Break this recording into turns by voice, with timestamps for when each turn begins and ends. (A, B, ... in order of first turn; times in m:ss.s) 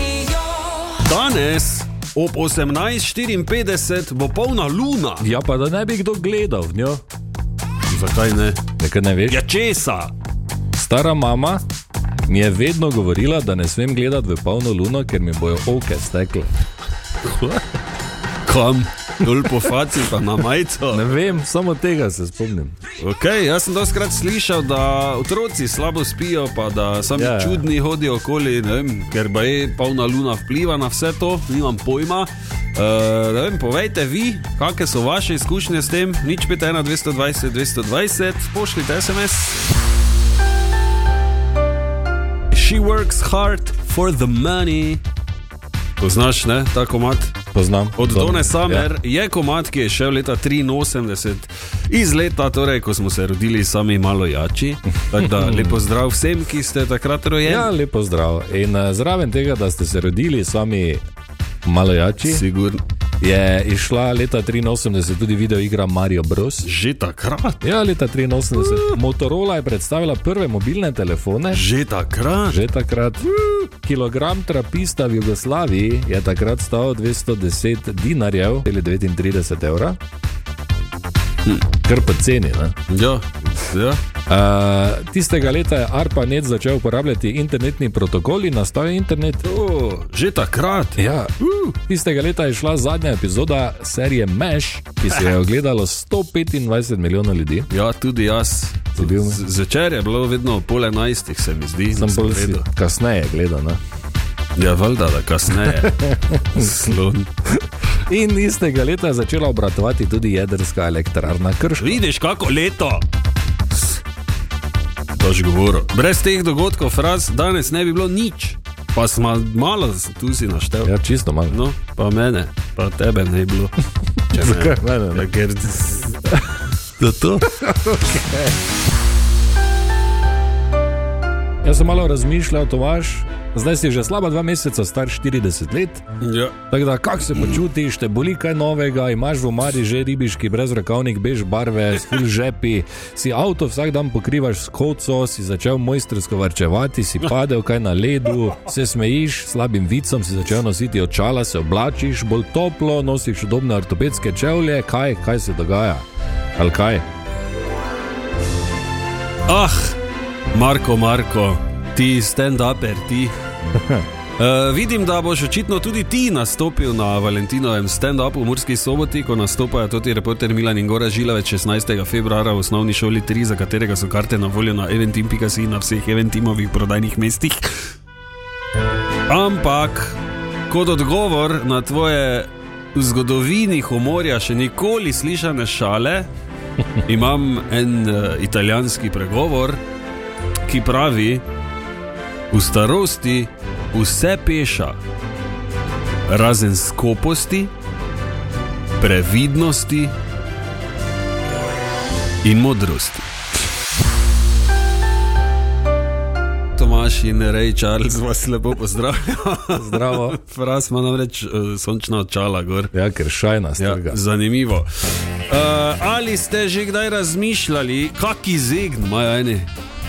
0:00.9-0:05.3 A
0:05.2-0:07.0 B
0:07.9-0:08.6 A
0:08.8-0:09.4 B
0:09.3-0:10.1 A
0:10.7-0:11.6 B
0:12.3-0:16.5 B
0:17.2-0:17.6 A
0:18.4-0:21.1 A
0:20.9-0:22.8 B
0:23.0-0:39.7 A
0:27.2-0:27.7 B
0:42.5-0:45.0 A
0:46.0-0:47.3 A
0:47.5-0:48.9 B
0:48.0-0:57.7 A
0:55.2-0:55.8 B
0:57.4-1:01.0 B
1:01.6-1:02.4 B
1:02.2-1:02.8 A
1:03.2-1:06.7 B
1:06.6-1:07.6 A
1:07.6-1:11.6 B
1:08.6-1:08.9 A
1:11.5-1:12.6 A
1:12.5-1:20.0 B
1:21.8-1:22.8 B
1:22.9-1:24.0 A
1:24.3-1:29.4 B
1:29.4-1:31.0 A
1:31.0-1:37.7 B
1:37.7-1:42.6 A
1:39.0-1:39.4 B
1:41.9-1:43.8 B
1:44.6-1:47.3 A
1:45.7-1:46.7 B
1:47.5-1:52.0 B
1:51.8-1:53.1 A
1:55.1-2:00.9 A
2:00.8-2:01.6 B
2:01.5-2:03.8 A
2:04.3-2:06.2 A
2:04.3-2:05.3 B
2:07.0-2:07.6 A
2:07.5-2:08.5 B
2:11.6-2:16.0 B
2:16.2-2:16.6 A
2:16.7-2:36.0 B
2:36.6-2:37.1 B
2:39.5-2:40.0 A
2:40.5-2:43.4 A
2:43.8-2:44.0 B
2:44.4-2:57.7 A
2:59.3-3:00.2 A
3:00.7-3:06.3 A
3:07.0-3:09.8 A
3:10.6-3:11.4 A
3:12.5-3:15.0 A
3:16.3-3:17.7 A
3:19.0-3:20.2 A
3:22.4-3:23.3 A
3:26.8-3:32.9 A
3:29.7-3:30.4 B
3:32.9-3:34.2 B
3:33.8-3:39.7 A